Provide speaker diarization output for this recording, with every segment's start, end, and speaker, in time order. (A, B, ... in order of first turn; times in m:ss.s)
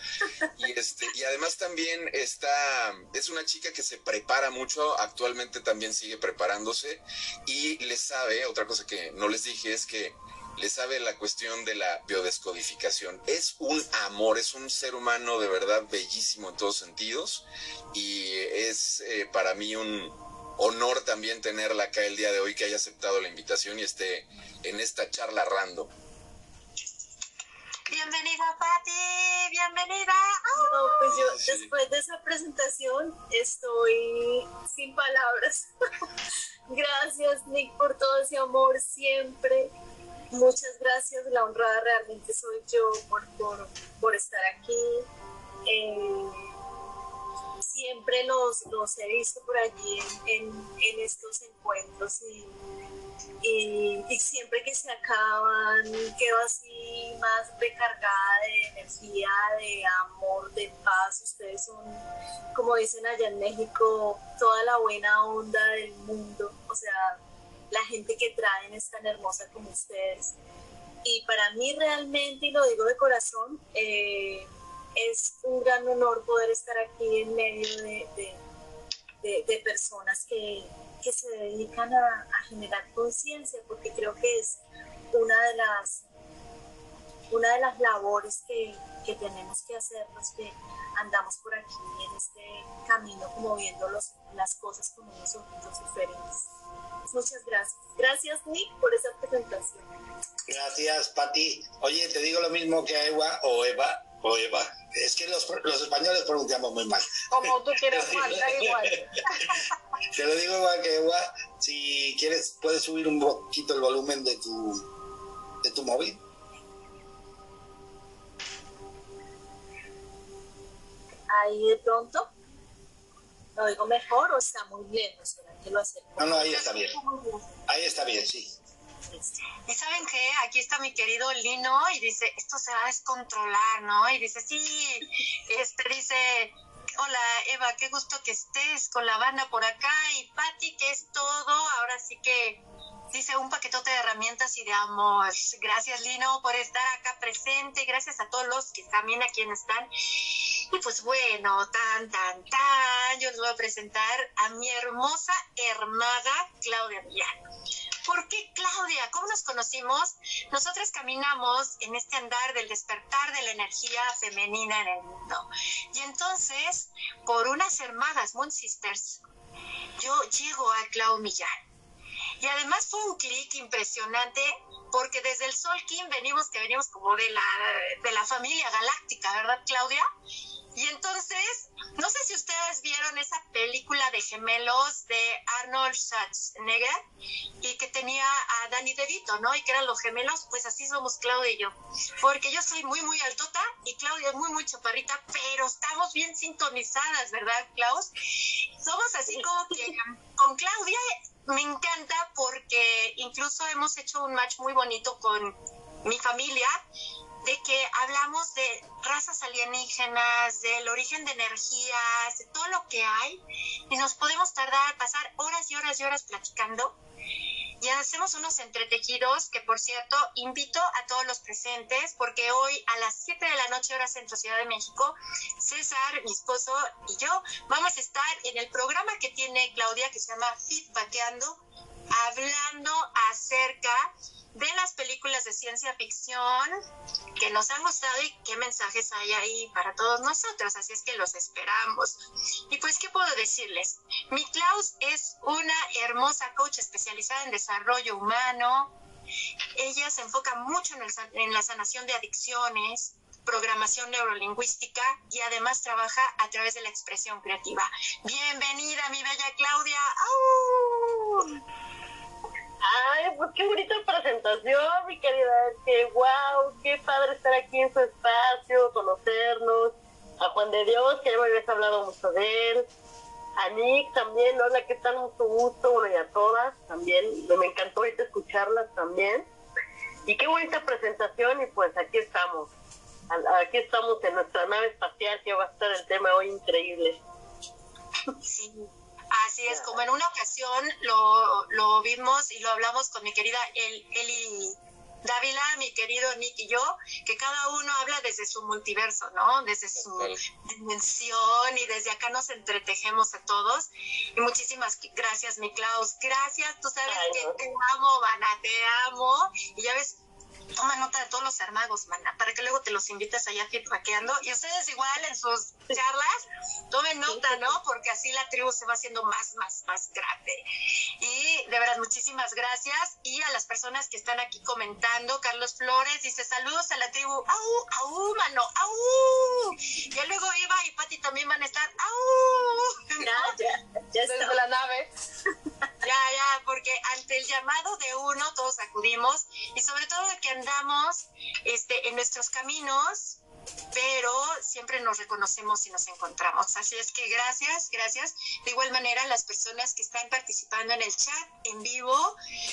0:00.4-0:25.9 A
0:27.9-0:31.0 B
0:30.6-0:35.7 C
0:31.1-0:31.7 A
0:36.7-0:39.7 C
0:40.3-0:45.1 C
0:45.7-0:46.5 C
0:47.6-0:52.5 C
0:53.4-1:07.2 C
1:07.7-1:10.3 C
1:11.0-1:18.4 C
1:19.2-1:24.6 C
1:25.1-1:26.0 C
1:27.3-1:36.5 C
1:37.1-1:39.9 C
1:40.5-1:49.5 D
1:47.3-1:49.5 E
1:50.1-1:54.8 D
1:55.6-1:56.2 D
2:01.3-2:02.3 C
2:03.6-2:06.7 C
2:06.2-2:07.0 D
2:06.3-2:07.4 B
2:07.7-2:08.6 D
2:09.7-2:37.4 B
2:38.1-2:49.2 B
2:50.0-2:51.5 B
2:52.4-3:00.0 B
3:00.8-3:07.0 B
3:07.6-3:26.7 B
3:27.4-3:37.0 B
3:37.8-3:56.8 B
3:57.4-4:08.9 B
4:09.8-4:21.6 B
4:22.8-4:32.9 F
4:33.6-4:39.5 F
4:40.2-4:42.7 F
4:43.3-4:47.2 F
4:48.4-5:10.2 B
4:49.7-4:50.0 F
5:00.0-5:00.4 A
5:07.1-5:07.6 F
5:10.8-5:20.6 B
5:21.2-5:33.6 B
5:33.2-5:34.6 C
5:34.2-5:35.1 E
5:36.0-5:43.4 B
5:43.9-5:52.4 B